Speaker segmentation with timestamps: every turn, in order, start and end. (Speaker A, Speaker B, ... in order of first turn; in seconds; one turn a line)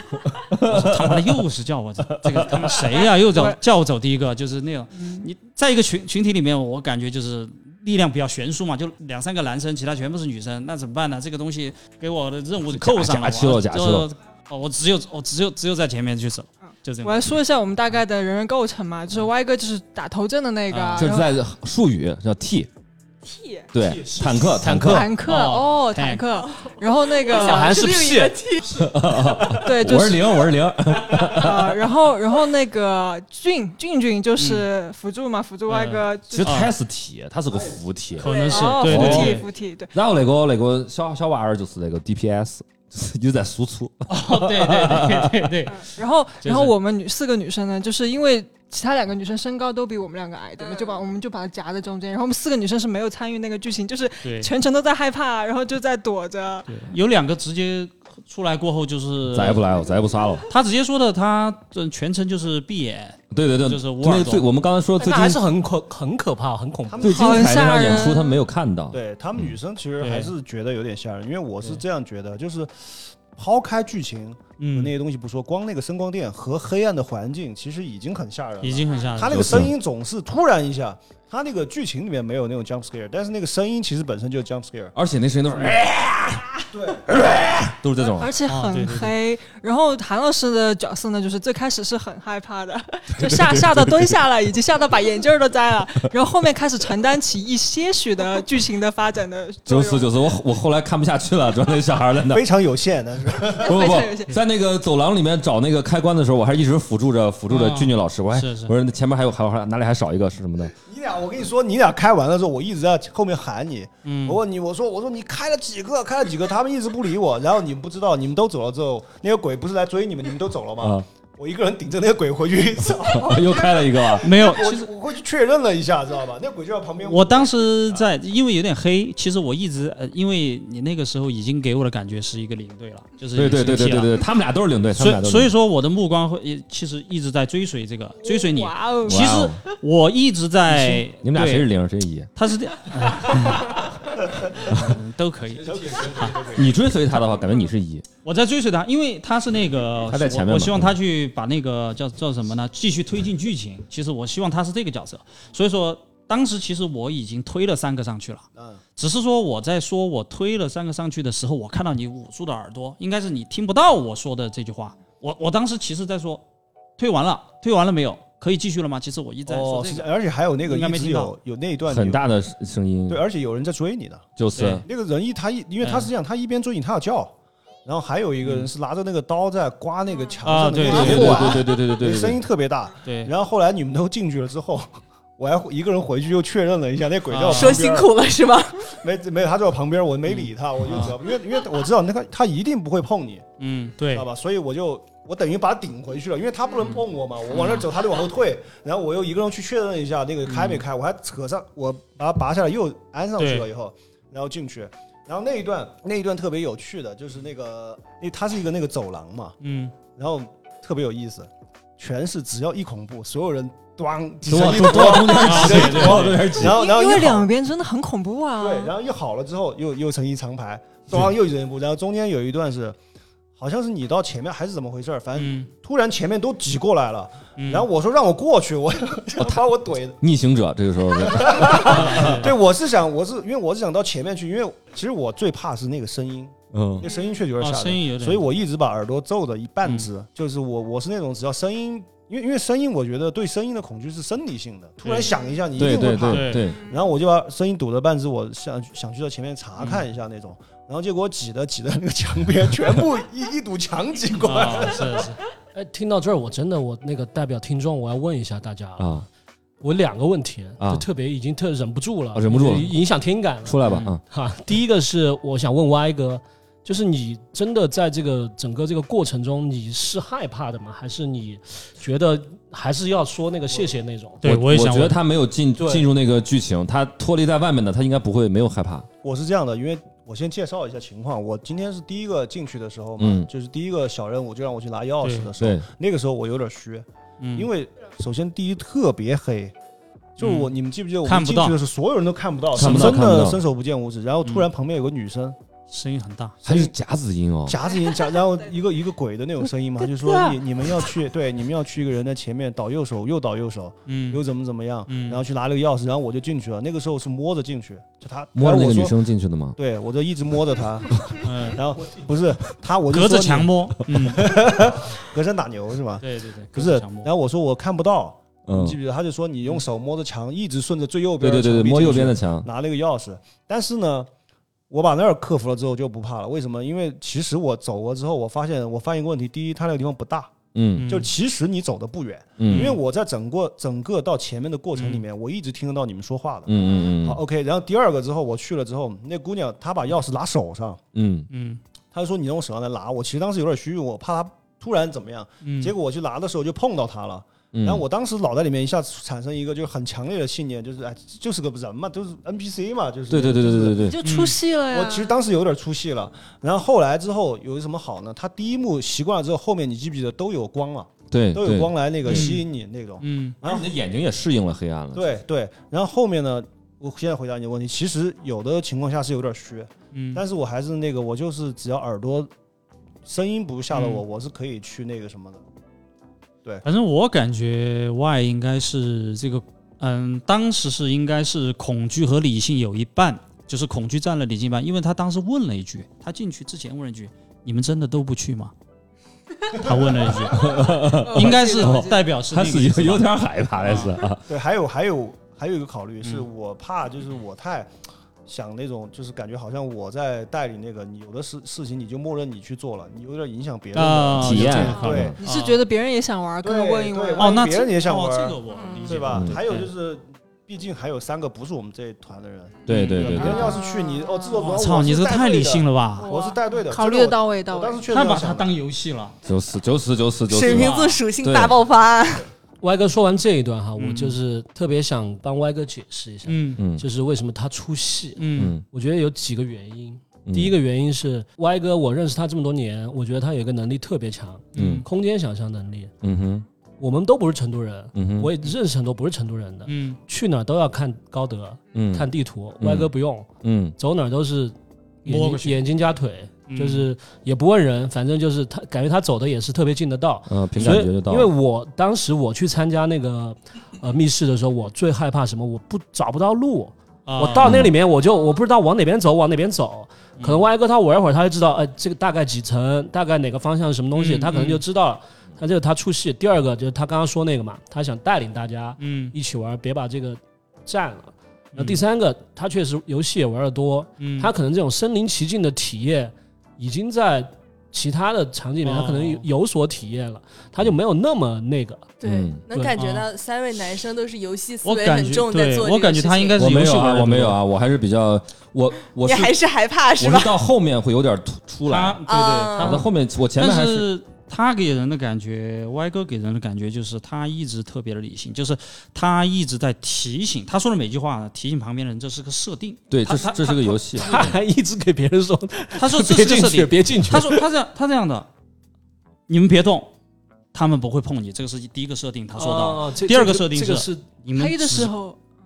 Speaker A: 0.3-1.3
Speaker B: 0.6-17.4
Speaker A: 2.1-2.9
Speaker C: 3.3-3.6
Speaker C: 4.9-5.3
Speaker A: 12.7-14.1
Speaker C: 17.0-21.3
Speaker B: 20.7-21.2
Speaker A: 21.0-22.7
Speaker C: 23.2-23.7
Speaker A: 23.7-25.1
Speaker D: 23.9-24.6
Speaker B: 24.6-26.2
Speaker C: 24.8-27.8
Speaker E: 27.3-28.6
Speaker D: 27.4-28.5
Speaker A: 28.6-31.9
Speaker C: 29.5-30.4
Speaker C: 31.1-36.6
Speaker B: 34.4-34.7
Speaker B: 35.7-36.7
Speaker A: 36.3-38.3
Speaker B: 38.2-39.5
Speaker E: 38.2-38.7
Speaker C: 38.4-39.9
Speaker A: 38.8-39.4
Speaker A: 39.9-45.5
Speaker B: 44.1-45.8
Speaker C: 45.8-56.7
Speaker B: 46.4-46.7
Speaker B: 54.2-54.5
Speaker B: 56.6-59.6
Speaker A: 59.3-60.4
Speaker B: 60.5-64.5
Speaker A: 63.3-65.4
Speaker D: 65.0-67.0
Speaker F: 66.9-68.0
Speaker A: 67.0-69.5
Speaker C: 67.0-68.4
Speaker F: 68.9-84.9
Speaker B: 70.0-70.3
Speaker B: 74.6-74.9
Speaker B: 78.6-79.7
Speaker A: 79.3-79.7
Speaker A: 84.9-88.4
Speaker F: 86.7-87.1
Speaker C: 88.1-100.1
Speaker B: 88.5-89.2
Speaker A: 93.2-94.2
Speaker A: 99.7-102.4
Speaker F: 102.3-104.0
Speaker C: 103.6-104.4
Speaker A: 103.6-110.7
Speaker B: 107.5-108.7
Speaker F: 110.8-128.1
Speaker B: 114.0-114.4
Speaker A: 123.0-124.3
Speaker B: 124.2-124.9
Speaker B: 127.0-134.1
Speaker A: 133.3-135.5
Speaker B: 134.9-141.7
Speaker C: 138.2-139.4
Speaker A: 139.1-139.6
Speaker A: 140.7-142.3
Speaker B: 142.3-143.9
Speaker B: 144.5-146.5
Speaker A: 144.7-145.0
Speaker F: 145.6-146.8
Speaker A: 146.5-148.0
Speaker B: 148.2-166.4
Speaker A: 150.1-150.9
Speaker F: 158.6-158.8
Speaker B: 167.0-170.1
Speaker F: 169.5-172.2
Speaker B: 170.6-171.3
Speaker A: 171.9-173.2
Speaker F: 173.1-177.3
Speaker A: 174.4-174.8
Speaker B: 174.5-174.8
Speaker B: 175.8-176.1
Speaker F: 177.8-188.1
Speaker B: 178.4-178.7
Speaker B: 180.4-181.6
Speaker A: 180.8-182.4
Speaker B: 183.0-183.3
Speaker B: 187.3-187.8
Speaker E: 187.5-188.9
Speaker F: 188.9-193.4
Speaker B: 190.3-191.1
Speaker B: 193.6-194.2
Speaker F: 194.1-209.6
Speaker B: 196.8-197.8
Speaker B: 200.4-200.8
Speaker B: 203.4-203.7
Speaker B: 209.6-209.9
Speaker F: 210.2-217.5
Speaker A: 214.5-216.8
Speaker B: 215.1-216.6
Speaker C: 216.6-218.9
Speaker F: 218.6-223.0
Speaker F: 223.6-230.2
Speaker B: 225.3-225.7
Speaker B: 227.6-227.9
Speaker A: 230.2-232.5
Speaker F: 231.2-255.3
Speaker B: 231.8-232.5
Speaker A: 236.7-237.0
Speaker B: 237.6-238.5
Speaker B: 239.8-240.1
Speaker B: 245.0-245.3
Speaker A: 245.8-246.8
Speaker B: 246.3-246.7
Speaker C: 246.7-247.1
Speaker B: 249.8-250.0
Speaker B: 254.4-255.4
Speaker D: 255.7-259.1
Speaker A: 259.0-259.3
Speaker D: 259.8-274.4
Speaker A: 260.8-261.1
Speaker A: 262.3-262.9
Speaker A: 263.6-264.2
Speaker B: 263.8-264.2
Speaker B: 274.4-275.2
Speaker A: 274.4-279.1
Speaker D: 275.8-276.0
Speaker F: 279.2-289.7
Speaker A: 283.2-283.5
Speaker B: 285.2-285.5
Speaker B: 287.4-287.7
Speaker F: 290.4-295.6
Speaker B: 290.4-290.7
Speaker B: 291.2-291.8
Speaker A: 292.7-293.6
Speaker B: 295.9-296.6
Speaker F: 296.6-296.9
Speaker A: 296.6-297.8
Speaker F: 297.7-309.2
Speaker B: 304.1-304.4
Speaker B: 305.1-305.4
Speaker A: 308.6-309.8
Speaker F: 309.8-324.3
Speaker B: 311.4-311.8
Speaker B: 313.1-314.6
Speaker B: 316.2-317.3
Speaker A: 318.7-319.0
Speaker A: 321.4-322.7
Speaker F: 324.9-341.0
Speaker A: 330.7-331.1
Speaker B: 331.0-331.3
Speaker A: 332.6-332.9
Speaker B: 332.6-333.0
Speaker B: 334.9-335.2
Speaker A: 336.7-337.4
Speaker A: 341.1-341.5
Speaker B: 341.5-341.8
Speaker F: 342.1-354.2
Speaker B: 345.6-345.9
Speaker A: 347.7-348.0
Speaker A: 353.3-354.2
Speaker C: 354.1-355.3
Speaker B: 354.2-354.6
Speaker F: 354.9-363.9
Speaker A: 361.3-362.5
Speaker B: 362.2-362.6
Speaker B: 363.2-363.6
Speaker A: 363.6-365.3
Speaker F: 365.1-372.5
Speaker B: 370.1-370.4
Speaker F: 373.2-375.6
Speaker B: 373.9-374.2
Speaker B: 376.8-388.7
Speaker B: 389.7-390.7
Speaker F: 389.8-390.4
Speaker A: 390.5-394.4
Speaker C: 390.8-392.2
Speaker B: 391.3-394.1
Speaker F: 394.5-397.9
Speaker B: 396.2-396.5
Speaker F: 398.4-405.4
Speaker B: 403.9-405.8
Speaker A: 404.4-405.4
Speaker C: 404.8-407.8
Speaker F: 406.6-418.7
Speaker B: 407.4-409.9
Speaker E: 408.8-409.1
Speaker A: 409.3-409.6
Speaker A: 412.9-413.8
Speaker B: 412.9-413.6
Speaker C: 413.3-414.6
Speaker B: 414.6-416.3
Speaker C: 416.2-418.1
Speaker B: 418.1-419.4
Speaker A: 419.4-421.8
Speaker E: 420.5-422.5
Speaker B: 420.7-421.2
Speaker D: 422.8-436.1
Speaker B: 424.0-424.4
Speaker B: 426.4-426.8
Speaker A: 426.8-427.1
Speaker B: 428.4-428.7
Speaker A: 428.5-428.8
Speaker A: 430.4-430.8
Speaker B: 434.7-435.1
Speaker A: 434.7-435.1
Speaker A: 436.2-436.6
Speaker D: 437.0-482.2
Speaker A: 438.1-438.6
Speaker B: 439.9-440.2
Speaker A: 441.9-444.0
Speaker B: 445.2-445.8
Speaker B: 446.7-447.1
Speaker A: 450.5-451.5
Speaker B: 457.2-457.8
Speaker A: 457.6-457.9
Speaker B: 460.4-460.6
Speaker B: 464.1-464.8
Speaker B: 469.0-469.4
Speaker B: 471.7-472.0
Speaker B: 474.2-474.5
Speaker B: 478.8-479.4
Speaker E: 482.2-486.6
Speaker A: 482.2-482.6
Speaker B: 482.7-483.3
Speaker B: 484.8-487.6
Speaker A: 486.6-489.6
Speaker E: 489.2-490.5
Speaker A: 490.2-492.2
Speaker B: 491.9-504.3
Speaker E: 492.3-493.1
Speaker A: 492.8-494.1
Speaker A: 503.1-504.6
Speaker D: 504.1-507.6
Speaker B: 505.9-508.5
Speaker B: 509.5-510.1
Speaker B: 510.7-515.1
Speaker D: 512.5-514.3
Speaker C: 514.5-515.4